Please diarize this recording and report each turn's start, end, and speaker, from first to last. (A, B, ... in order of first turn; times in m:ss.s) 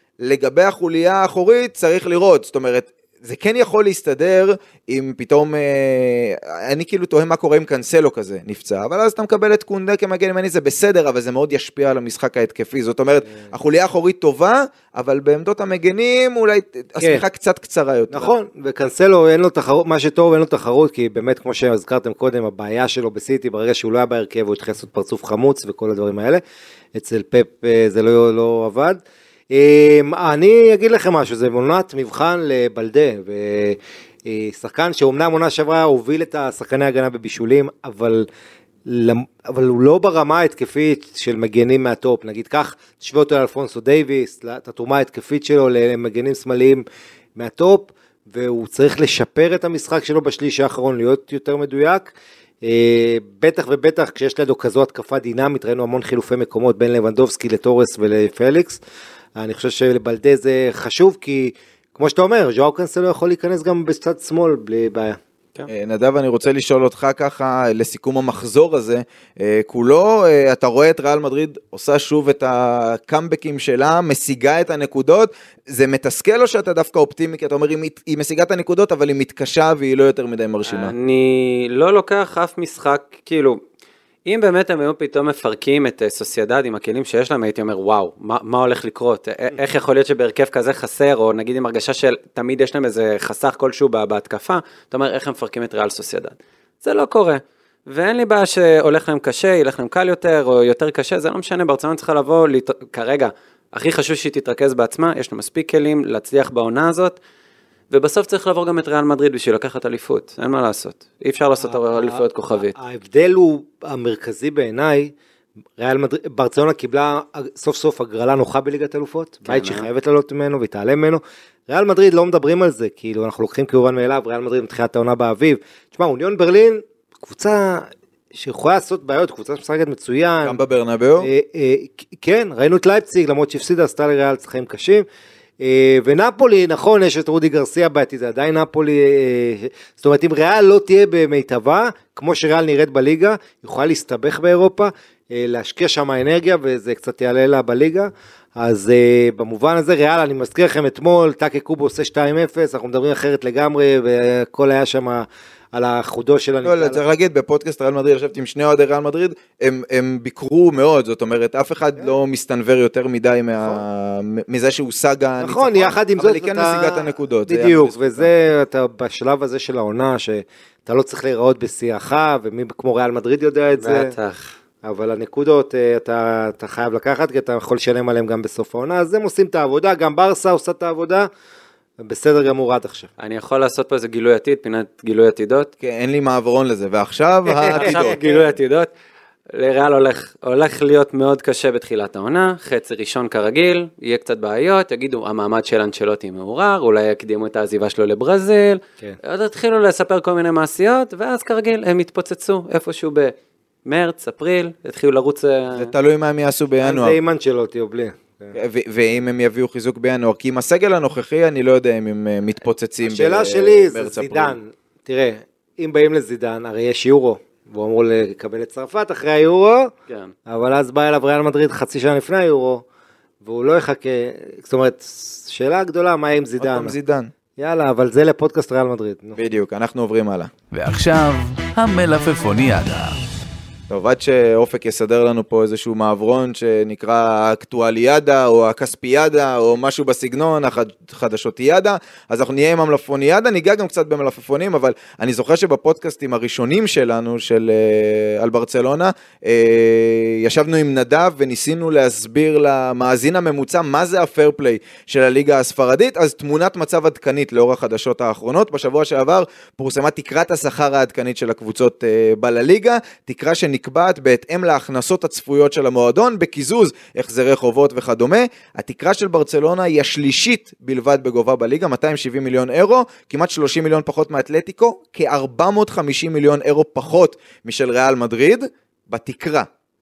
0:00.2-0:18.3 A
0:17.0-0:17.2 B
0:18.1-0:26.4 B
0:26.9-0:29.0 B
0:29.5-0:38.3 B
0:38.9-0:46.8 B
0:47.4-0:58.8 B
0:59.4-1:05.2 B
1:05.7-1:20.9 A
1:20.6-1:23.6 C
1:24.2-1:47.2 C
1:47.9-1:52.7 C
1:51.6-1:55.1 B
1:55.8-2:10.6 B
1:59.4-1:59.9 C
2:10.4-2:11.3 A
2:11.2-2:15.0 B
2:15.6-2:37.0 B
2:36.6-2:48.3 A
2:45.4-2:54.1 B
2:53.8-2:54.5 C
2:54.8-3:01.3 B
3:02.0-3:03.1 B
3:03.2-3:05.7 C
3:05.8-3:08.2 A
3:07.6-3:08.9 C
3:07.7-3:08.5 B
3:09.5-3:23.3 C
3:23.8-3:25.9 C
3:25.7-3:27.2 A
3:26.8-3:28.5 B
3:28.5-3:34.6 A
3:33.0-3:39.9 B
3:40.5-3:42.8 B
3:43.4-3:46.9 B
3:46.6-3:47.3 A
3:47.6-3:49.4 B
3:49.4-3:50.5 A
3:50.7-3:53.2 D
3:53.9-4:39.7 A